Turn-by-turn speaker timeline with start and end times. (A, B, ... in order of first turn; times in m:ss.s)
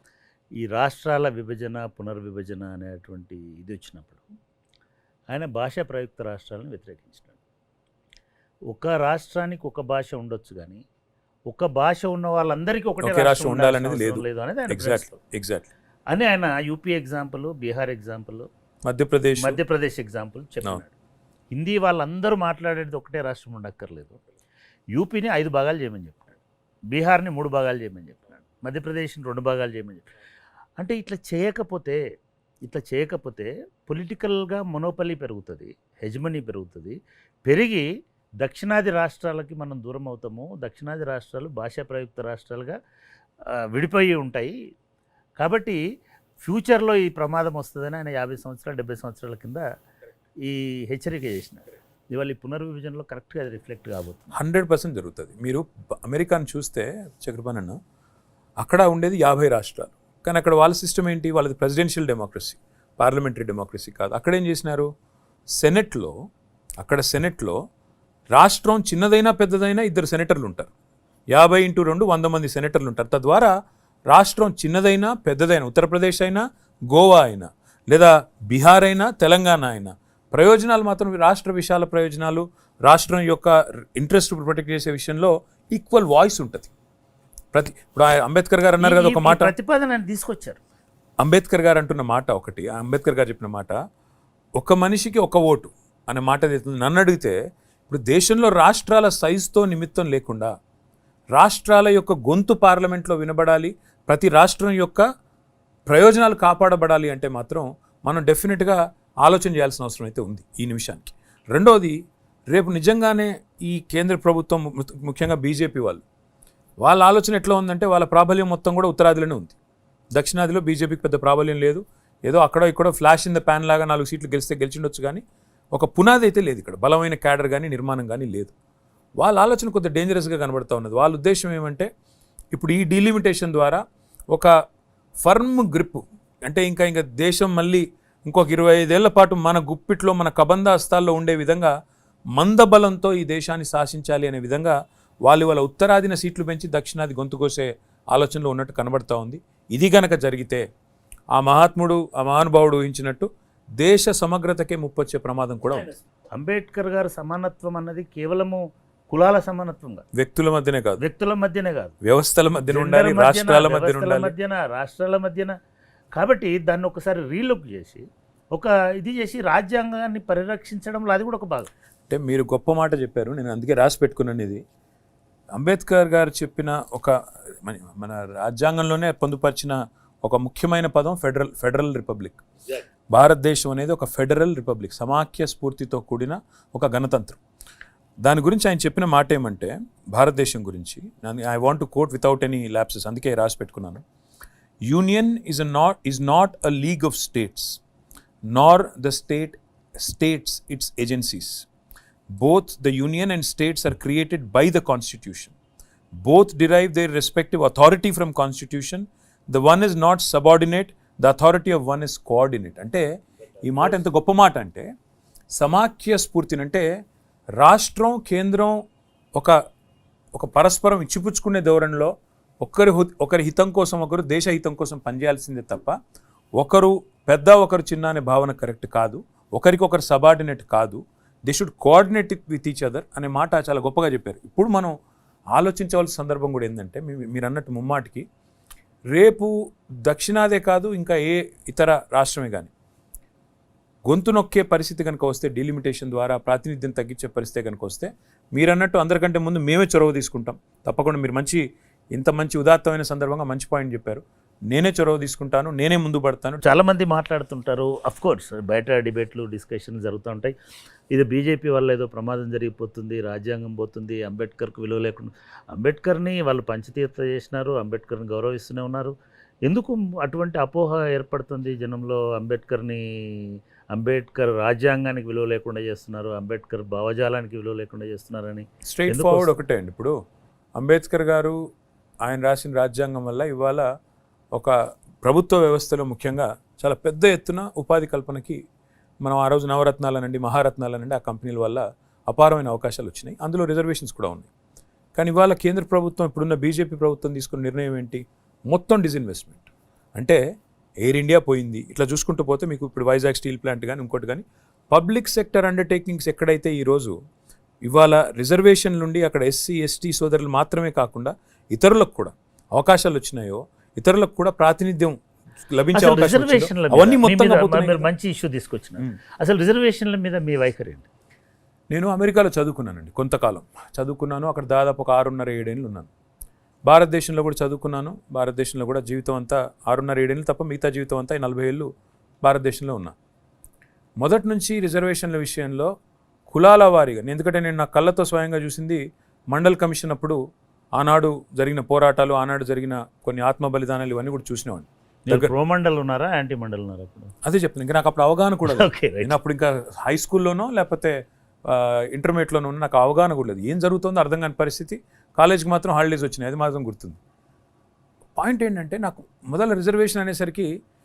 0:00.6-0:04.2 A
0:05.3-0:07.4 A
0:08.7-0:10.8 A
0:11.5-0:15.2 A
0:13.0-0:15.7 B
0:16.1-0:18.5 A
0:18.8-0:19.6 B
0:19.4-0:20.9 A
0:21.5-0:24.2 A
0:24.9-0:26.4 A
0:26.9-0:30.1 A
0:30.8-0:32.0 A
0:32.6-0:37.8 A
0:38.4-0:42.8 A
0:43.5-0:44.6 A
0:45.4-0:45.8 A
0:46.4-0:49.6 A
0:50.4-0:54.3 A
0:54.3-0:57.8 B
0:58.6-1:04.9 B
1:05.6-1:06.1 B
1:06.8-1:07.6 B
1:08.3-1:10.7 B
1:11.3-1:13.5 B
1:14.1-1:26.7 B
1:27.5-1:29.5 B
1:28.8-1:30.6 A
1:31.2-1:33.8 B
1:34.6-1:37.4 B
1:37.9-1:40.5 B
1:41.3-1:45.0 B
1:45.9-1:51.9 B
1:52.5-1:56.0 B
1:56.8-1:59.6 B
2:00.1-2:05.2 B
2:05.7-2:08.5 B
2:09.2-2:11.9 B
2:12.5-2:14.5 B
2:15.2-2:21.7 B
2:22.3-2:30.6 B
2:31.3-2:33.3 B
2:33.8-2:35.9 B
2:36.3-2:40.0 A
2:40.1-2:41.0 B
2:41.0-2:41.9 A
2:42.0-2:44.3 B
2:42.7-2:45.5 A
2:46.1-2:51.7 A
2:52.1-2:54.6 B
2:55.5-3:02.4 B
3:03.1-3:07.4 B
3:08.2-3:14.0 B
3:14.9-3:17.8 B
3:18.5-3:21.7 B
3:22.4-3:25.5 B
3:26.2-3:33.0 B
3:33.6-3:34.9 B
3:35.5-3:36.8 B
3:37.6-3:38.7 B
3:40.3-3:45.9 B
3:46.6-3:54.9 B
3:55.5-3:58.2 B
3:59.1-3:59.5 B
4:00.0-4:02.7 B
4:04.1-4:11.6 B
4:12.1-4:16.6 B
4:16.6-4:20.5 A
4:21.1-4:29.1 A
4:29.6-4:39.6 A
4:38.8-4:40.1 B
4:40.8-4:41.6 B
4:42.2-4:43.8 B
4:44.5-4:48.6 B
4:49.2-4:54.5 B
4:55.2-5:00.4 B
5:01.0-5:07.1 B
5:07.8-5:15.1 B
5:15.7-5:18.1 B
5:15.9-5:21.1 A
5:21.9-5:26.1 B
5:26.8-5:31.9 B
5:32.4-5:33.1 B
5:34.2-5:35.9 B
5:36.5-5:39.0 B
5:39.5-5:40.4 B
5:41.0-5:45.5 B
5:45.3-5:47.3 A
5:47.4-5:57.2 B
5:48.7-5:49.4 A
5:58.4-6:00.7 B